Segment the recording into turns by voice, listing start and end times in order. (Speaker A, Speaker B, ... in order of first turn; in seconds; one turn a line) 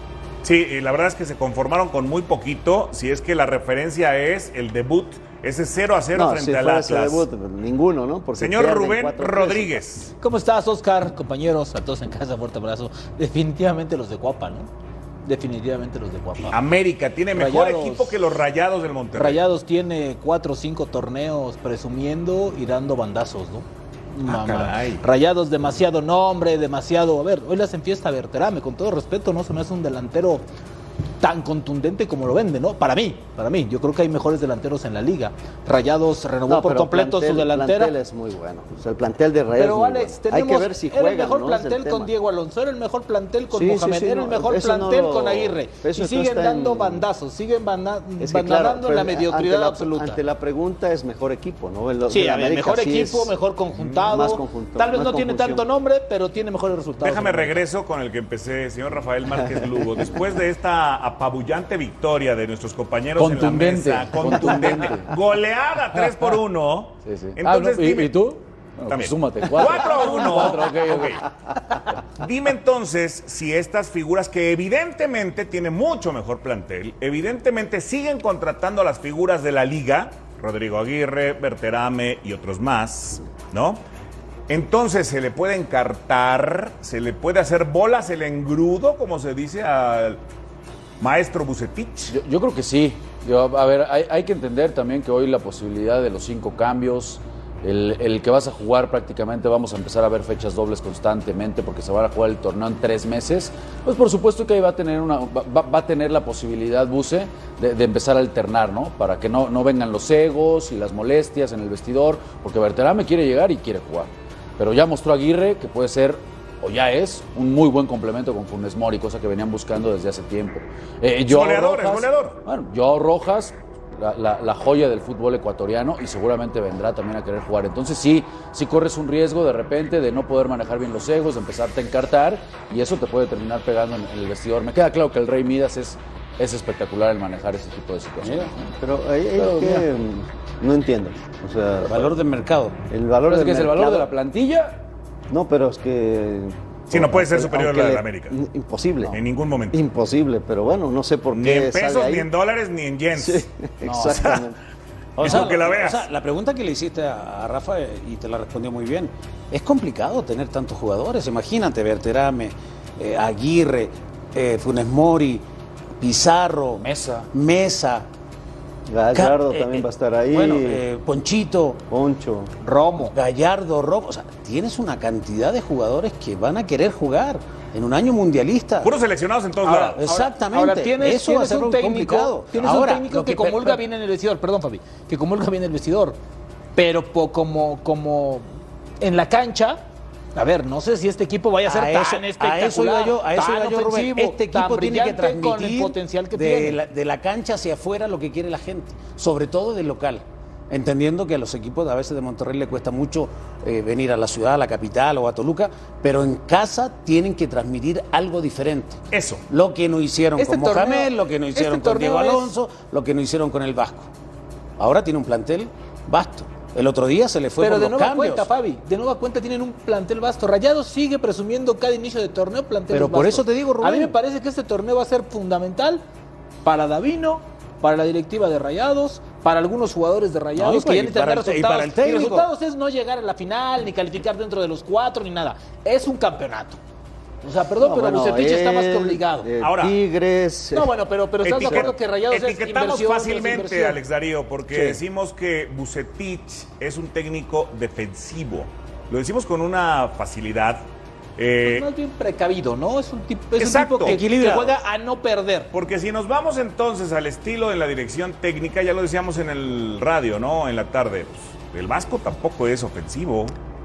Speaker A: 0.4-7.3
Speaker B: 6.1-9.8
Speaker A: 8.4-10.1
Speaker C: 10.2-14.7
Speaker C: 15.2-16.6
Speaker A: 16.5-19.4
Speaker C: 17.3-18.2
Speaker C: 19.1-30.4
Speaker A: 24.2-25.0
Speaker C: 31.2-37.9
Speaker B: 36.5-42.1
Speaker C: 39.5-50.2
Speaker B: 43.5-47.1
Speaker B: 48.2-55.6
Speaker C: 52.1-57.6
Speaker A: 57.0-68.2
Speaker D: 63.2-65.2
Speaker D: 67.0-71.2
Speaker A: 68.9-71.2
Speaker A: 72.2-83.8
Speaker A: 84.5-90.2
Speaker A: 91.0-92.1
Speaker D: 92.1-138.7
Speaker A: 121.3-122.4
Speaker E: 138.2-138.5
Speaker B: 138.8-142.0
Speaker D: 139.4-139.8
Speaker E: 141.9-142.8
Speaker B: 142.9-144.1
Speaker D: 143.3-144.8
Speaker B: 145.3-149.2
Speaker A: 146.9-148.4
Speaker A: 149.1-149.8
Speaker B: 149.7-152.3
Speaker A: 151.3-154.5
Speaker B: 153.1-154.6
Speaker E: 155.2-165.4
Speaker A: 155.2-156.1
Speaker E: 166.0-168.1
Speaker D: 166.8-167.3
Speaker B: 168.9-170.8
Speaker E: 169.1-171.8
Speaker B: 171.9-172.5
Speaker C: 172.6-173.1
Speaker E: 173.1-178.9
Speaker A: 178.8-180.0
Speaker C: 179.6-186.2
Speaker E: 179.9-183.8
Speaker C: 186.7-188.4
Speaker C: 189.0-189.8
Speaker C: 190.3-196.8
Speaker E: 191.6-214.1
Speaker A: 209.1-209.4
Speaker C: 210.4-212.5
Speaker E: 214.8-218.5
Speaker C: 217.6-226.0
Speaker E: 222.9-224.2
Speaker C: 226.6-236.8
Speaker E: 230.6-232.5
Speaker C: 237.4-239.5
Speaker B: 237.8-240.9
Speaker A: 239.6-240.0
Speaker C: 240.7-244.0
Speaker A: 241.4-250.8
Speaker B: 241.6-241.9
Speaker B: 244.7-245.0
Speaker A: 251.4-251.9
Speaker C: 251.6-255.7
Speaker A: 253.6-254.2
Speaker E: 254.0-254.7
Speaker A: 255.7-263.5